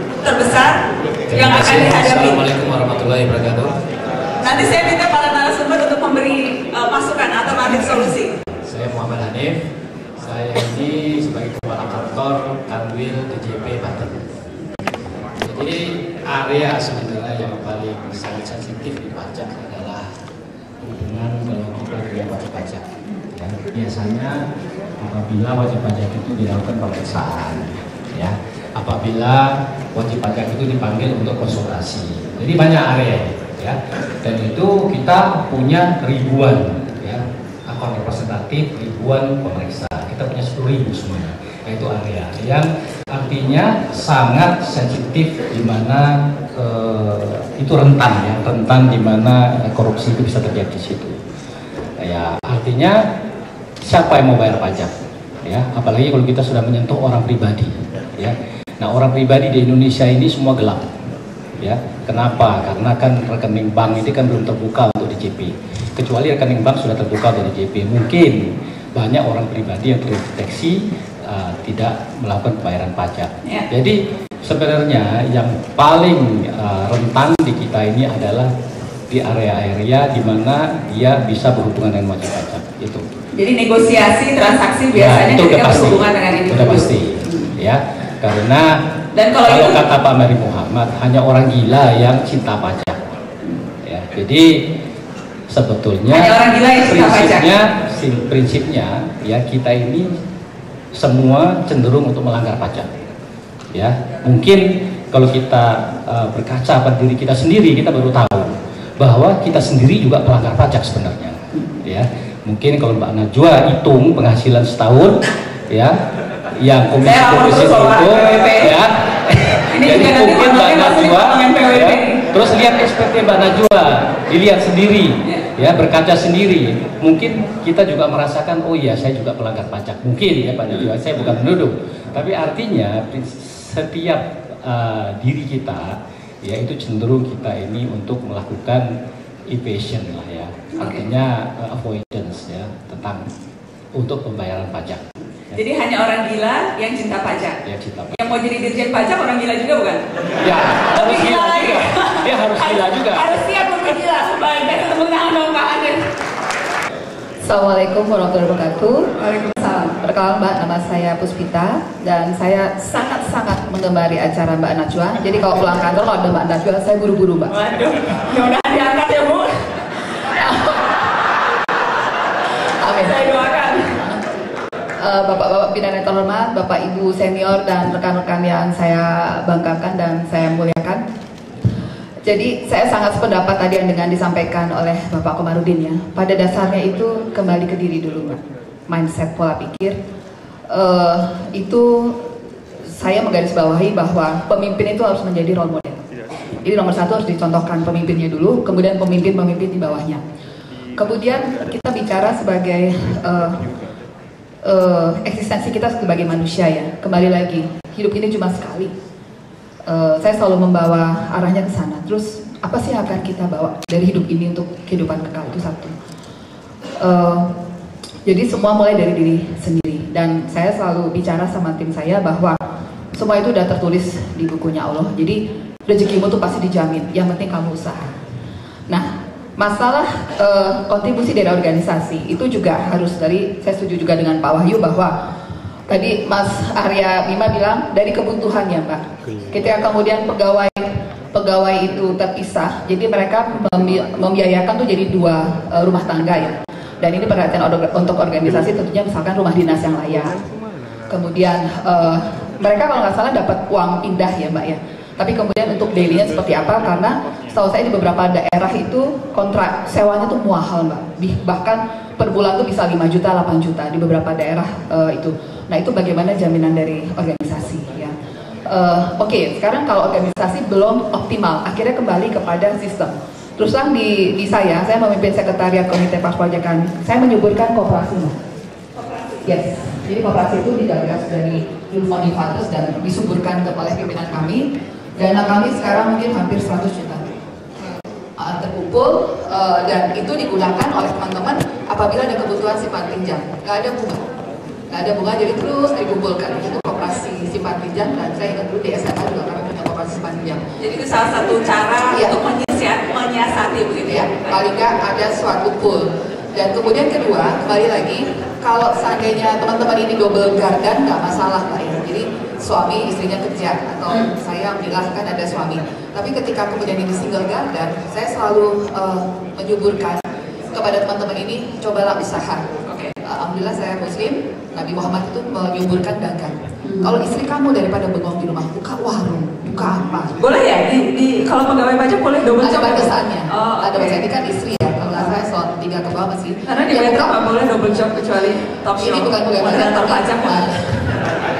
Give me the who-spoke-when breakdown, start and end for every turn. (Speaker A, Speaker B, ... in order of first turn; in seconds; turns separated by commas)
Speaker A: 0.2-2.4, Speaker B: 1.3-3.8, Speaker A: 4.4-8.3, Speaker B: 4.4-4.8, Speaker B: 8.6-9.6, Speaker B: 10.2-14.2, Speaker B: 15.4-20.1, Speaker B: 20.8-24.4, Speaker B: 25.0-51.2, Speaker B: 52.0-53.0, Speaker B: 53.8-54.9, Speaker B: 55.4-60.9, Speaker B: 61.6-68.4, Speaker B: 68.9-78.5, Speaker B: 79.1-83.0, Speaker A: 83.3-87.5, Speaker B: 84.9-88.7, Speaker A: 89.1-89.8, Speaker B: 89.4-93.1, Speaker B: 93.8-94.5, Speaker B: 95.5-100.1, Speaker A: 96.1-97.5, Speaker B: 100.9-102.9, Speaker B: 103.7-115.9, Speaker B: 116.6-135.9, Speaker A: 117.0-118.7, Speaker A: 119.7-122.3, Speaker B: 136.4-138.8, Speaker B: 139.5-143.2, Speaker A: 140.8-141.0, Speaker B: 143.9-145.6, Speaker A: 145.5-147.6, Speaker B: 147.6-148.2, Speaker A: 148.1-150.0, Speaker B: 150.4-153.3, Speaker A: 150.7-156.0, Speaker C: 157.4-167.6, Speaker A: 159.2-159.9, Speaker A: 167.5-169.7, Speaker C: 170.4-170.8, Speaker C: 172.8-174.2, Speaker A: 173.0-173.9, Speaker C: 175.0-181.0, Speaker C: 182.2-190.0, Speaker C: 190.7-192.2, Speaker C: 192.9-196.0, Speaker C: 196.6-200.2, Speaker C: 200.9-203.7, Speaker C: 204.6-208.9, Speaker C: 209.9-215.9, Speaker C: 217.0-217.5, Speaker C: 218.2-222.6, Speaker C: 223.1-228.1, Speaker C: 228.9-235.1, Speaker C: 235.9-250.3, Speaker C: 251.1-268.1, Speaker C: 268.7-278.3, Speaker C: 279.4-287.3, Speaker C: 288.4-294.2, Speaker C: 294.9-300.6, Speaker A: 300.8-304.5, Speaker C: 302.1-302.4, Speaker C: 304.1-322.7, Speaker C: 323.2-330.4, Speaker A: 326.9-327.1, Speaker A: 330.4-334.2, Speaker C: 332.6-337.4, Speaker A: 336.6-341.1, Speaker C: 338.9-341.2